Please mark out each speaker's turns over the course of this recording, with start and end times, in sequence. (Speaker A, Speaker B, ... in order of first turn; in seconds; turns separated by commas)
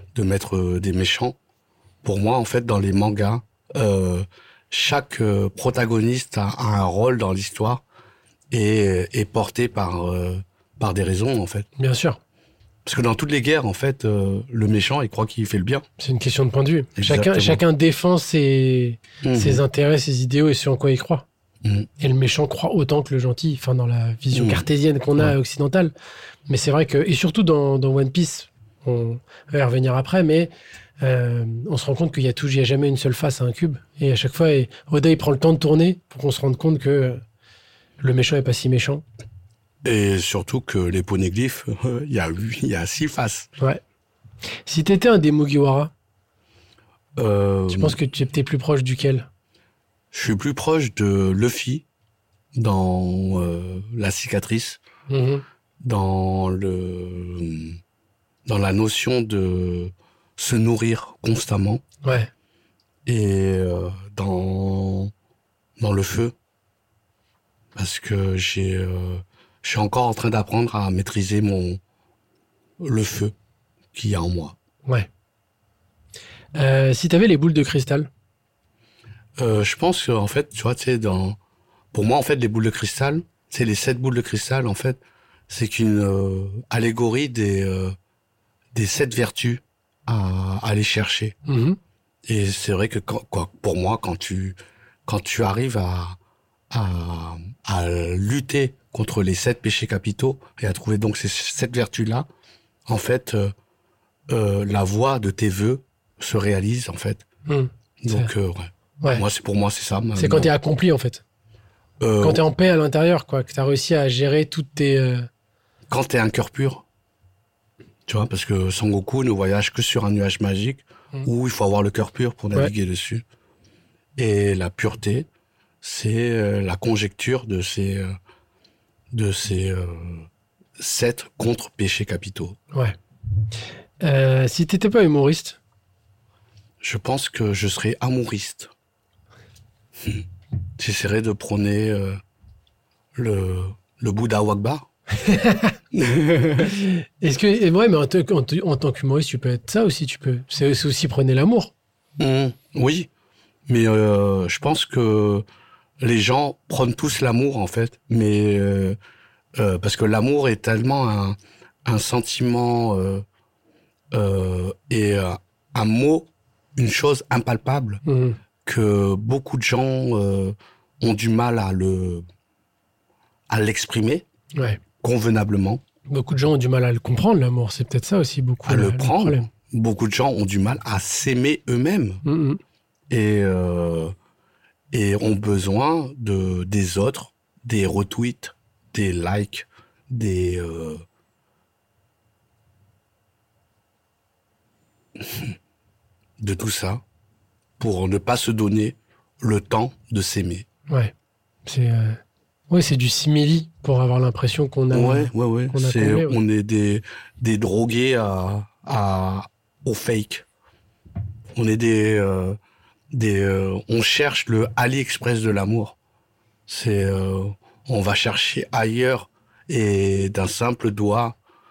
Speaker A: 0.1-1.4, Speaker A: 2.0-7.8, Speaker A: 8.5-11.7, Speaker B: 11.8-12.2, Speaker A: 12.8-15.8, Speaker B: 16.0-21.2, Speaker A: 17.0-17.6, Speaker A: 19.2-19.6, Speaker B: 22.0-25.9, Speaker A: 24.3-25.3, Speaker B: 26.5-30.5, Speaker B: 31.0-37.2, Speaker B: 38.0-39.0, Speaker A: 39.8-43.5, Speaker B: 44.6-45.9, Speaker A: 47.2-48.0, Speaker B: 47.7-49.3, Speaker A: 50.1-51.8, Speaker A: 52.5-54.8, Speaker B: 55.1-55.4, Speaker A: 55.8-57.8, Speaker A: 58.5-61.8, Speaker B: 62.0-62.3, Speaker A: 63.0-65.1, Speaker A: 65.8-66.3, Speaker A: 67.7-71.8, Speaker A: 72.8-73.3, Speaker A: 73.9-74.5, Speaker B: 76.5-78.1, Speaker A: 79.4-81.4, Speaker A: 81.9-88.0, Speaker A: 88.7-91.3, Speaker B: 91.5-91.8, Speaker A: 92.3-96.2, Speaker A: 96.7-102.3, Speaker A: 102.9-103.5, Speaker A: 104.3-107.2, Speaker B: 107.5-108.3, Speaker A: 108.0-110.5, Speaker B: 110.2-111.2, Speaker A: 112.0-112.4, Speaker B: 112.2-115.3, Speaker A: 115.9-116.8, Speaker A: 118.1-123.2, Speaker A: 124.2-125.3, Speaker A: 125.8-128.1, Speaker A: 129.1-132.6, Speaker B: 134.0-135.6, Speaker A: 136.8-138.7, Speaker A: 140.8-142.2, Speaker A: 143.1-144.8, Speaker B: 145.2-145.7, Speaker A: 145.9-146.8, Speaker B: 146.6-151.7, Speaker A: 152.2-153.1, Speaker A: 153.7-155.4, Speaker A: 156.0-159.0, Speaker A: 159.6-163.2, Speaker A: 164.1-168.0, Speaker B: 168.1-168.4, Speaker A: 168.6-172.2, Speaker A: 173.5-174.2, Speaker B: 174.5-174.8, Speaker A: 175.0-175.8, Speaker B: 176.1-179.5, Speaker A: 178.7-182.2, Speaker B: 182.2-182.6, Speaker A: 183.1-184.1, Speaker A: 184.9-191.0, Speaker A: 195.2-195.5, Speaker A: 196.4-197.0, Speaker A: 197.8-200.7, Speaker B: 201.7-206.4, Speaker A: 204.9-210.4, Speaker A: 211.5-212.6, Speaker A: 213.1-215.9, Speaker A: 216.7-221.4